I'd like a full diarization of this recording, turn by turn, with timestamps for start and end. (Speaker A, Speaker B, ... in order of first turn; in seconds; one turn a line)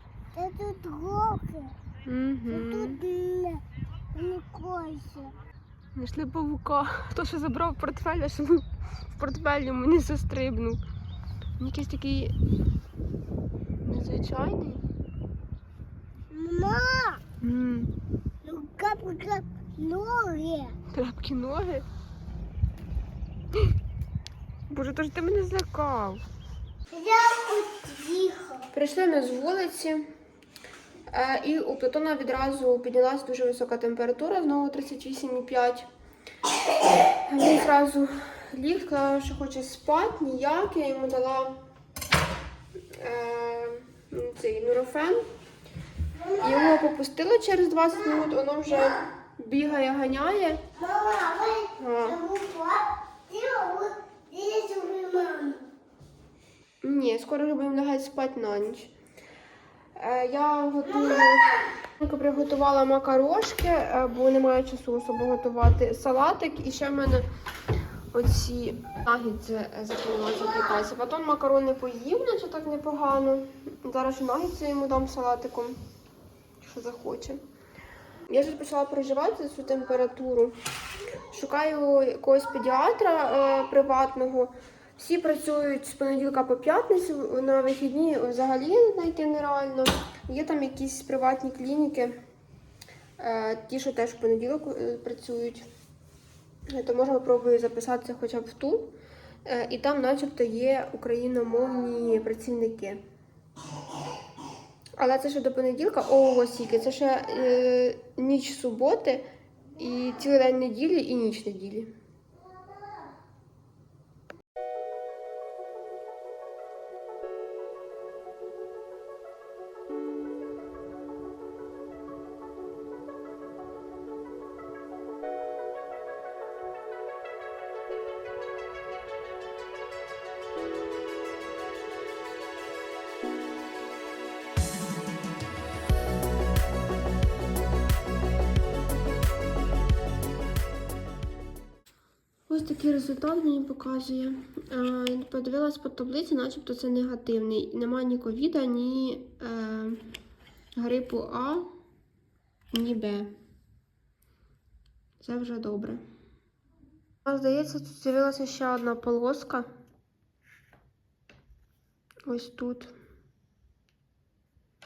Speaker A: 0.3-1.7
Speaker B: 2.0-3.0
Speaker A: 2.5-3.6
Speaker A: 4.1-5.3
Speaker B: 6.0-10.8
Speaker B: 11.6-12.3
Speaker B: 13.8-14.8
Speaker A: 16.3-17.2
Speaker B: 17.4-17.9
Speaker A: 18.4-20.8
Speaker B: 20.9-21.9
Speaker B: 24.7-26.2
Speaker A: 26.9-28.7
Speaker B: 28.7-30.1
Speaker B: 31.1-35.9
Speaker B: 37.2-41.6
Speaker B: 42.9-45.2
Speaker A: 46.1-46.8
Speaker B: 46.4-50.6
Speaker A: 50.7-55.7
Speaker B: 51.8-52.2
Speaker B: 56.8-58.9
Speaker B: 60.0-67.3
Speaker A: 60.9-61.5
Speaker B: 68.1-75.8
Speaker B: 76.6-77.4
Speaker B: 78.3-80.6
Speaker B: 81.3-92.2
Speaker B: 93.2-95.7
Speaker B: 96.7-98.9
Speaker B: 99.5-103.0
Speaker B: 105.0-109.3
Speaker B: 109.8-111.9
Speaker A: 112.4-113.1
Speaker B: 142.5-150.1
Speaker B: 150.8-151.7
Speaker B: 152.7-153.3
Speaker B: 155.2-156.0
Speaker B: 157.3-159.7
Speaker B: 162.3-162.9